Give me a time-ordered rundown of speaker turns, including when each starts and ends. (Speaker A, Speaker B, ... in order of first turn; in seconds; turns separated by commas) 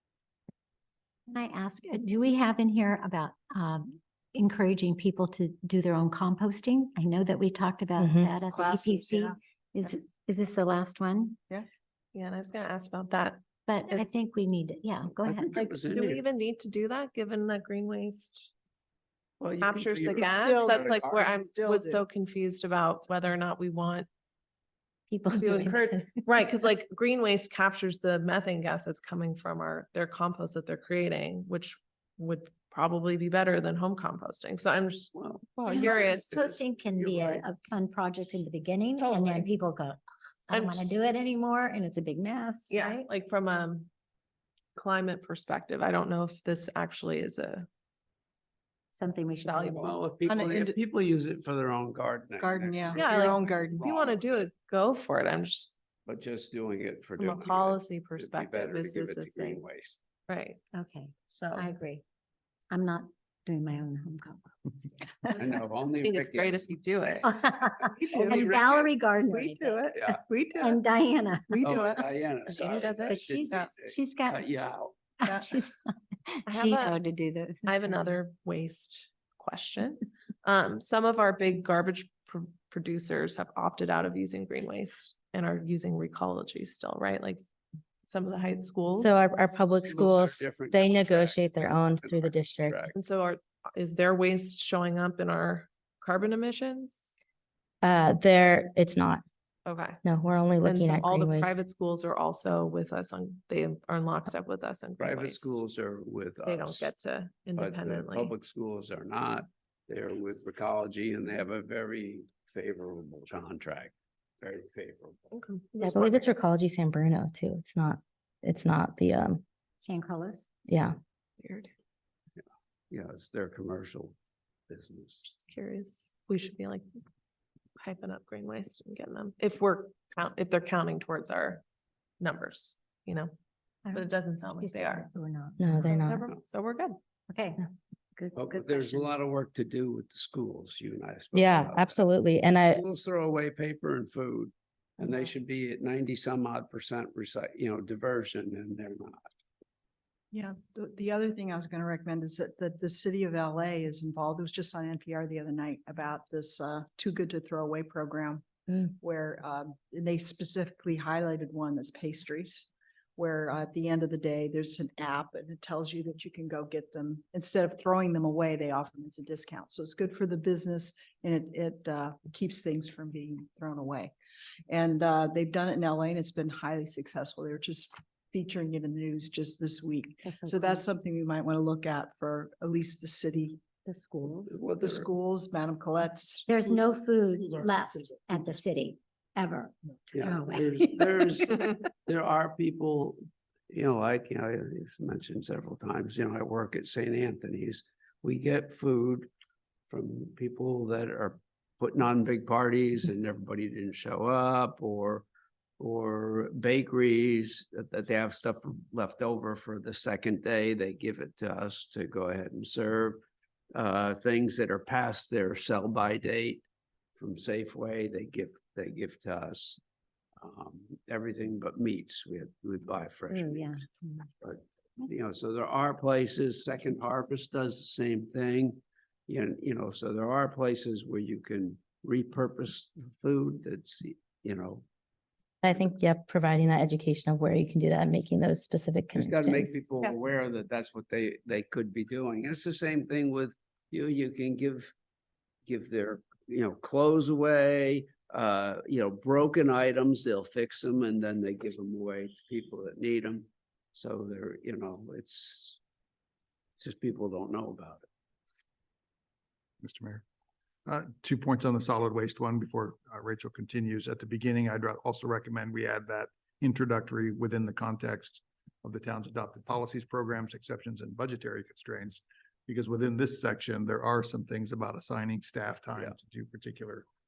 Speaker A: 1.3-11.4, Speaker B: 8.0-8.3, Speaker C: 8.5-9.3, Speaker D: 12.1-14.1, Speaker A: 13.7-15.6, Speaker E: 15.2-16.2, Speaker D: 15.5-18.5, Speaker E: 19.4-21.2, Speaker D: 19.6-24.1, Speaker C: 20.2-22.0, Speaker A: 25.1-26.2, Speaker D: 25.3-36.4, Speaker E: 35.1-37.5, Speaker A: 35.6-42.9, Speaker D: 39.0-39.5, Speaker D: 40.5-41.0, Speaker D: 42.7-43.9, Speaker D: 44.8-47.7, Speaker A: 48.9-49.9, Speaker D: 49.4-49.9, Speaker E: 49.8-54.3, Speaker C: 50.2-50.8, Speaker C: 52.4-53.9, Speaker D: 52.9-55.7, Speaker E: 56.0-60.0, Speaker D: 57.2-59.6, Speaker D: 60.3-60.6, Speaker A: 60.7-62.0, Speaker D: 61.3-61.6, Speaker A: 62.7-65.5, Speaker E: 65.4-66.7, Speaker D: 66.0-67.3, Speaker A: 67.2-70.0, Speaker E: 68.0-69.0, Speaker C: 68.0-68.5, Speaker C: 69.2-70.8, Speaker E: 69.9-70.2, Speaker A: 70.5-71.6, Speaker C: 71.5-72.1, Speaker E: 71.6-75.0, Speaker D: 72.5-73.7, Speaker A: 73.1-74.7, Speaker A: 75.2-78.0, Speaker D: 76.5-77.0, Speaker D: 77.7-87.4, Speaker D: 88.1-89.2, Speaker B: 89.0-92.8, Speaker E: 89.8-92.9, Speaker D: 92.9-97.1, Speaker B: 97.8-99.2, Speaker D: 99.7-100.0, Speaker B: 100.0-101.6, Speaker D: 100.6-105.6, Speaker E: 105.0-106.9, Speaker D: 106.4-108.3, Speaker E: 107.5-115.3, Speaker D: 115.3-116.2, Speaker B: 115.8-119.4, Speaker A: 119.8-120.5, Speaker B: 120.7-121.0, Speaker D: 121.4-121.7, Speaker E: 122.9-124.2, Speaker E: 124.7-125.2, Speaker D: 125.2-126.9, Speaker D: 127.8-131.6, Speaker D: 132.2-133.3, Speaker A: 133.8-136.0, Speaker D: 133.9-135.1, Speaker B: 135.6-136.2, Speaker D: 135.7-137.0, Speaker E: 136.1-136.4, Speaker A: 137.3-137.6, Speaker A: 138.2-139.1, Speaker E: 138.3-142.0, Speaker B: 141.3-142.8, Speaker E: 142.7-149.2, Speaker C: 150.3-174.1, Speaker C: 174.7-183.6, Speaker A: 180.2-180.8, Speaker A: 183.8-184.6, Speaker E: 184.4-185.1, Speaker C: 184.8-186.5, Speaker A: 186.5-191.5, Speaker E: 190.1-199.3, Speaker E: 199.9-205.3, Speaker E: 205.8-213.2, Speaker E: 213.7-216.6, Speaker E: 217.2-219.8, Speaker E: 220.4-223.8, Speaker A: 223.3-224.2, Speaker E: 224.4-234.8, Speaker B: 235.6-239.7, Speaker E: 239.1-244.9, Speaker E: 245.7-255.8, Speaker E: 256.8-258.1, Speaker F: 259.8-260.2, Speaker F: 260.9-277.0